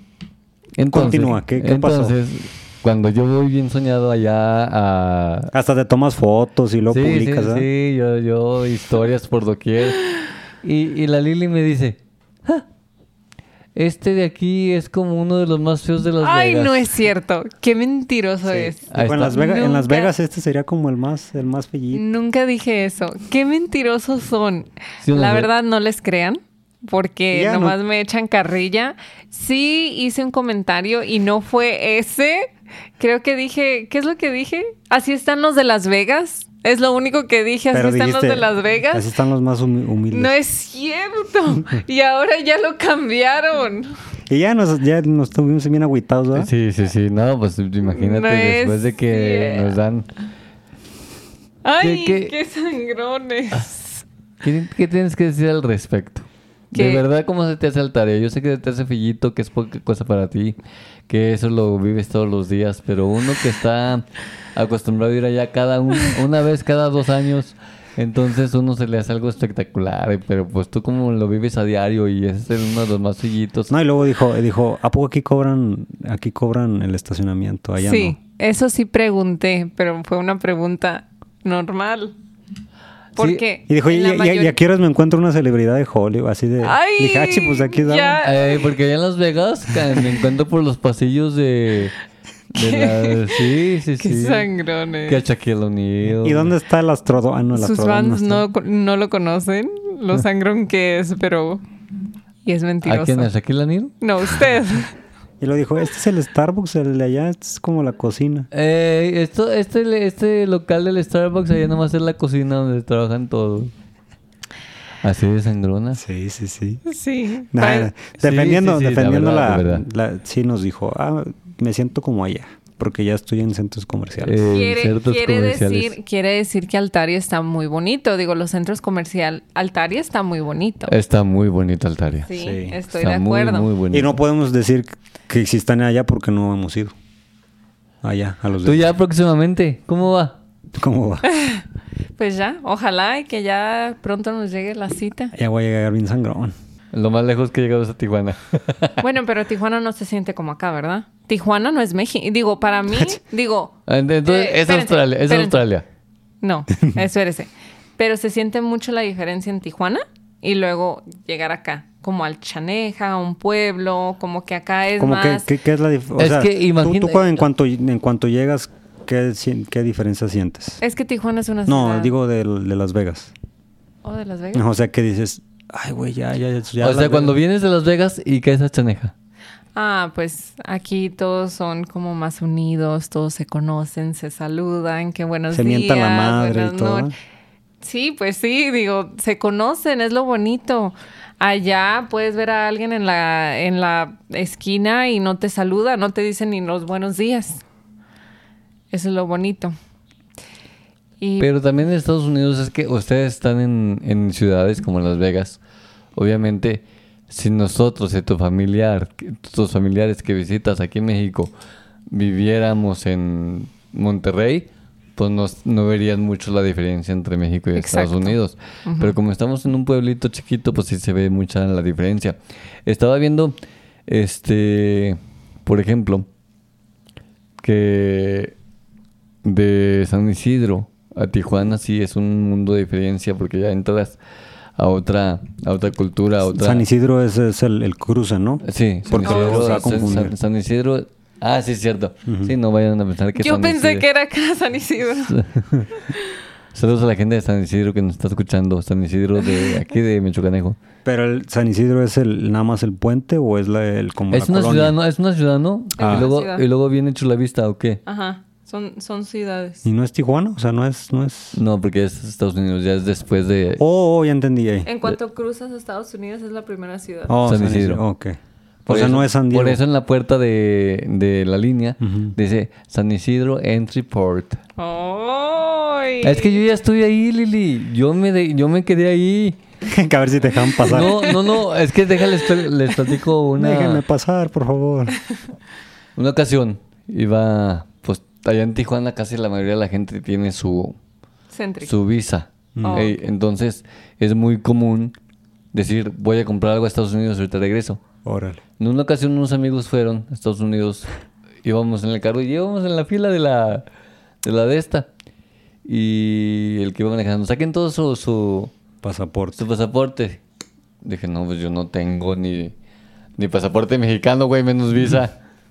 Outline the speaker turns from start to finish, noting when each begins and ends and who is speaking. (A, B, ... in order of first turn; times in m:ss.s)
0:00.8-0:05.5 A
0:00.9-0:02.1 B
0:05.5-0:07.7 B
0:06.9-0:10.0 A
0:10.6-0:12.6 A
0:13.7-0:16.9 A
0:16.2-0:20.1 C
0:18.5-0:22.0 B
0:18.9-0:19.4 A
0:21.9-0:39.1 C
0:25.0-0:25.5 A
0:27.3-0:27.8 B
0:37.7-0:40.3 B
0:40.1-0:43.9 C
0:44.3-0:46.5 B
0:46.3-0:50.1 A
0:47.9-0:49.7 C
0:51.6-0:54.0 C
0:51.8-0:52.3 A
0:54.4-1:00.6 A
0:56.7-0:57.0 C
1:01.1-1:13.7 A
1:13.7-1:18.2 B
1:17.8-1:22.1 C
1:23.2-1:23.4 A
1:23.2-1:24.6 C
1:23.7-1:28.2 B
1:26.6-1:28.6 C
1:28.2-1:31.9 A
1:32.5-1:34.5 A
1:32.5-1:33.4 C
1:34.0-1:35.2 C
1:35.1-1:36.5 A
1:36.2-1:38.4 B
1:37.5-1:41.6 C
1:42.4-1:43.3 C
1:42.8-1:43.9 A
1:44.0-1:44.9 C
1:45.4-1:48.5 B
1:48.5-1:53.7 A
1:55.0-1:56.0 A
1:55.9-1:56.8 B
1:56.8-1:57.9 C
1:57.5-2:04.4 B
1:58.2-1:59.8 A
2:04.2-2:05.9 A
2:04.5-2:10.9 C
2:10.9-2:12.3 A
2:12.2-2:13.7 C
2:12.3-2:12.8 B
2:12.9-2:14.2 A
2:13.9-2:16.9 B
2:18.0-2:18.9 B
2:18.6-2:20.3 A
2:20.8-2:21.2 B
2:21.3-2:21.6 C
2:22.2-2:25.3 C
2:25.3-2:26.5 B
2:26.9-2:29.0 A
2:29.0-2:33.7 C
2:33.9-2:35.8 A
2:34.2-2:35.6 C
2:36.4-2:45.5 C
2:45.0-2:50.8 B
2:46.2-2:47.4 A
2:50.8-2:52.1 C
2:51.6-2:53.3 B
2:54.0-2:54.6 C
2:54.5-2:57.4 B
2:56.8-2:59.1 A
2:59.8-3:07.1 C
3:05.5-3:07.1 B
3:07.8-3:17.6 C
3:18.9-3:19.7 C
3:21.2-3:21.5 C
3:21.4-3:25.6 A
3:26.2-3:31.5 A
3:32.1-3:43.5 A
3:37.8-3:39.2 C
3:44.1-3:46.2 A
3:47.6-3:48.5 A
3:49.4-3:54.2 A
3:54.8-3:56.8 A
3:56.5-4:00.3 B
3:58.6-4:04.0 A
3:59.2-3:59.8 C
4:02.2-4:02.5 B
4:03.4-4:05.4 C
4:05.3-4:05.9 A
4:05.9-4:06.3 C
4:06.7-4:10.8 A
4:09.4-4:09.7 C
4:11.0-4:14.9 B
4:14.3-4:18.0 A
4:16.0-4:16.6 C
4:16.0-4:16.3 B
4:18.0-4:19.8 C
4:19.8-4:21.6 B
4:21.5-4:23.8 A
4:23.8-4:24.9 B
4:24.8-4:27.4 C
4:27.3-4:29.8 B
4:27.4-4:28.0 A
4:28.9-4:34.6 A
4:32.0-4:32.3 B
4:34.8-4:36.6 C
4:36.2-4:39.6 A
4:39.8-4:41.3 B
4:40.9-4:44.0 A
4:40.9-4:41.4 C
4:43.6-4:45.2 B
4:46.2-4:51.0 A
4:51.5-4:51.9 C
4:51.8-4:55.1 A
4:52.7-4:53.1 B
4:52.8-4:53.1 C
4:55.7-4:58.0 A
4:58.2-4:58.6 B
4:58.8-5:01.1 A
5:01.6-5:03.8 A
5:04.4-5:05.1 A
5:05.8-5:08.7 A
5:09.0-5:09.6 B
5:09.6-5:10.4 A
5:11.0-5:12.7 A
5:13.4-5:15.3 A